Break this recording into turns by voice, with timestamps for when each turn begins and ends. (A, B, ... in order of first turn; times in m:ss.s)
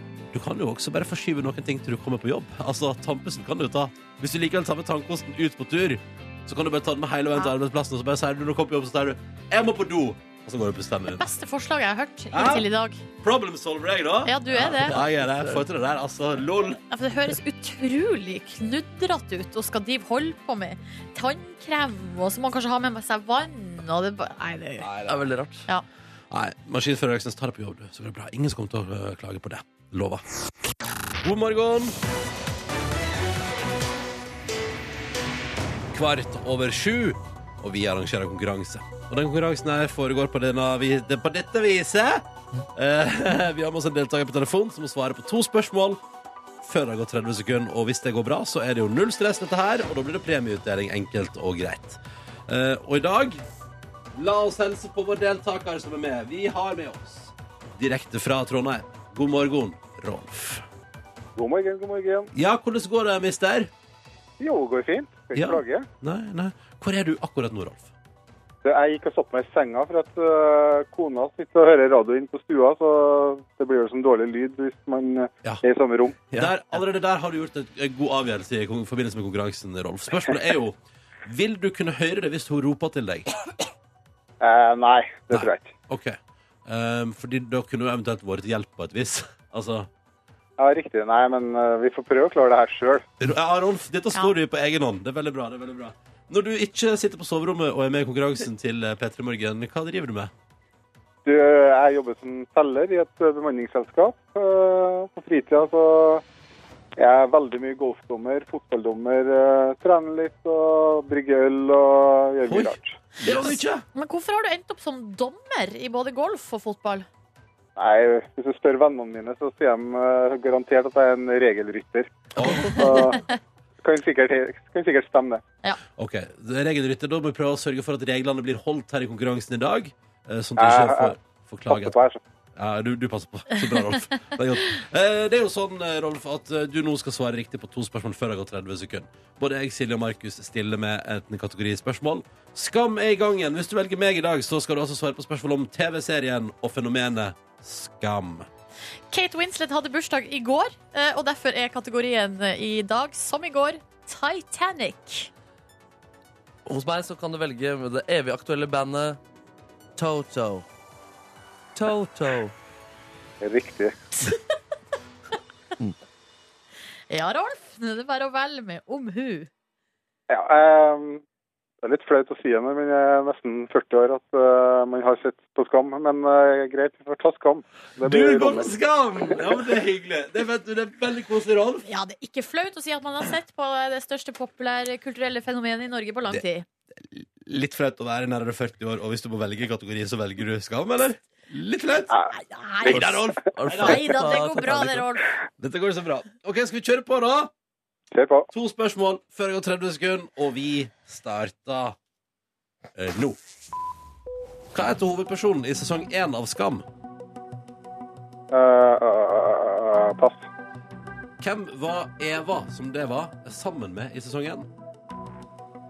0:00.3-0:11.2 A
0:11.2-0:13.0 B
0:12.3-0:12.7 A
0:13.2-0:16.8 A
0:14.2-0:15.0 B
0:14.8-0:15.6 C
0:16.9-0:24.9 B
0:24.8-0:25.3 A
0:25.1-0:25.7 C
0:26.3-0:30.2 A
0:31.2-0:32.0 A
0:35.9-0:46.0 A
0:46.6-0:53.4 A
0:54.1-1:00.6 A
1:01.4-1:02.3 D
1:02.3-1:03.7 A
1:04.4-1:05.8 D
1:05.3-1:07.9 A
1:08.6-1:16.2 D
1:16.3-1:23.3 A
1:24.4-1:25.7 D
1:25.3-1:29.9 A
1:30.6-1:33.0 D
1:33.2-1:40.3 A
1:41.2-1:46.2 D
1:47.0-1:52.9 D
1:52.4-1:53.8 A
1:53.2-1:57.1 B
1:57.8-2:03.2 D
2:02.4-2:03.2 A
2:02.4-2:03.3 B
2:03.8-2:05.4 D
2:06.0-2:11.9 A
2:10.6-2:11.1 D
2:11.7-2:12.2 D
2:12.6-2:28.5 A
2:29.1-2:35.3 B
2:36.6-2:39.2 C
2:40.0-2:40.6 C
2:41.7-2:42.5 C
2:43.4-2:43.9 D
2:44.2-2:44.4 B
2:47.1-2:49.5 B
2:50.3-2:51.2 D
2:51.8-2:58.7 D
2:58.0-3:01.9 A
3:01.8-3:06.6 B
3:06.9-3:12.2 A
3:12.3-3:15.3 B
3:12.8-3:14.6 A
3:13.5-3:15.0 C
3:15.6-3:17.5 A
3:18.1-3:18.5 D
3:18.5-3:22.0 A
3:22.9-3:23.4 A
3:24.7-3:26.8 A
3:28.5-3:30.5 D
3:31.4-3:34.7 A